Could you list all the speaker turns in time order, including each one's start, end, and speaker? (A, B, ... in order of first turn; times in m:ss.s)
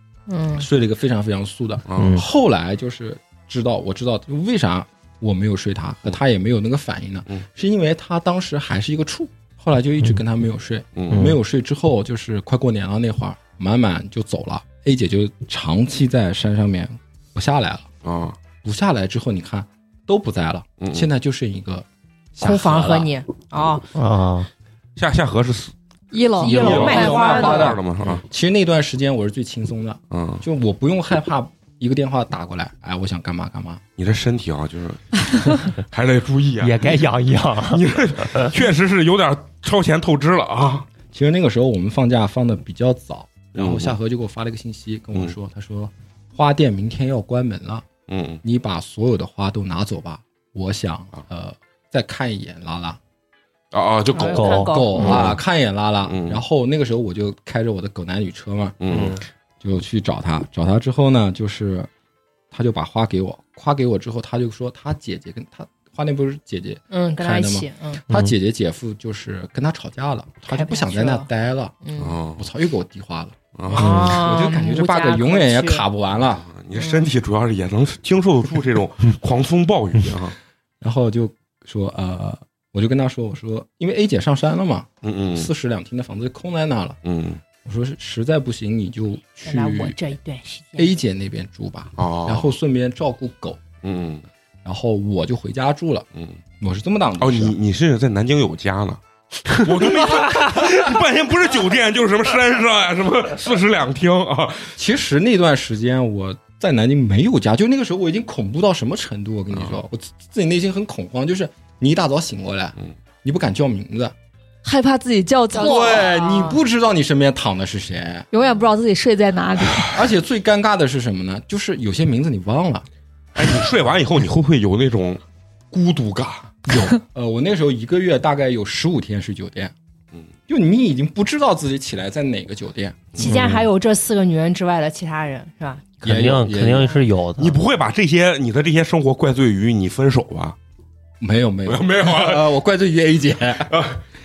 0:00.3-0:00.7 A
0:00.5-0:17.9 B
0:01.9-0:02.2 C
0:01.9-0:02.2 D
0:11.0-0:11.3 C
0:11.1-0:11.4 D
0:18.0-0:18.4 C
0:18.5-0:23.1 B
0:20.8-0:21.1 C
0:22.4-0:23.8 A
0:23.9-0:24.5 D
0:25.0-0:25.7 C
0:26.1-0:27.4 E
0:26.4-0:27.7 A
0:26.4-0:33.8 B
0:26.5-0:28.2 C
0:30.1-0:30.4 C
0:34.0-0:40.9 C
0:36.6-0:38.5 D
0:41.1-0:47.8 B
0:43.5-0:44.0 C
0:48.1-0:48.4 C
0:48.4-0:53.0 B
0:53.7-0:55.4 C
0:54.1-0:55.2 A
0:54.3-0:55.3 D
0:54.5-0:58.8 B
0:56.0-0:56.4 C
0:58.8-0:59.2 C
0:58.9-0:59.2 D
0:59.6-1:01.9 B
1:02.5-1:16.5 B
1:06.9-1:08.0 A
1:10.5-1:11.3 A
1:11.8-1:12.2 A
1:12.0-1:12.4 C
1:13.5-1:14.2 C
1:13.7-1:15.8 A
1:13.8-1:14.2 D
1:16.2-1:20.4 C
1:16.8-1:17.0 A
1:20.8-1:27.0 B
1:25.0-1:25.5 C
1:27.0-1:27.4 C
1:27.6-1:30.0 B
1:29.4-1:30.9 A
1:30.8-1:33.6 B
1:32.0-1:32.5 C
1:33.8-1:34.2 C
1:34.6-1:36.0 B
1:36.1-1:36.4 C
1:36.6-1:37.5 B
1:37.2-1:44.7 C
1:44.8-1:54.1 B
1:49.5-1:49.8 C
1:54.6-1:56.1 E
1:55.5-1:56.6 A
1:55.5-1:58.3 B
1:58.3-1:59.9 E
1:59.9-2:02.8 B
2:03.3-2:06.5 C
2:06.6-2:09.7 B
2:10.5-2:13.1 B
2:13.2-2:16.0 A
2:13.2-2:13.7 D
2:16.0-2:17.6 D
2:16.0-2:17.0 B
2:17.4-2:20.6 C
2:21.2-2:23.8 B
2:21.6-2:22.5 C
2:23.7-2:24.0 C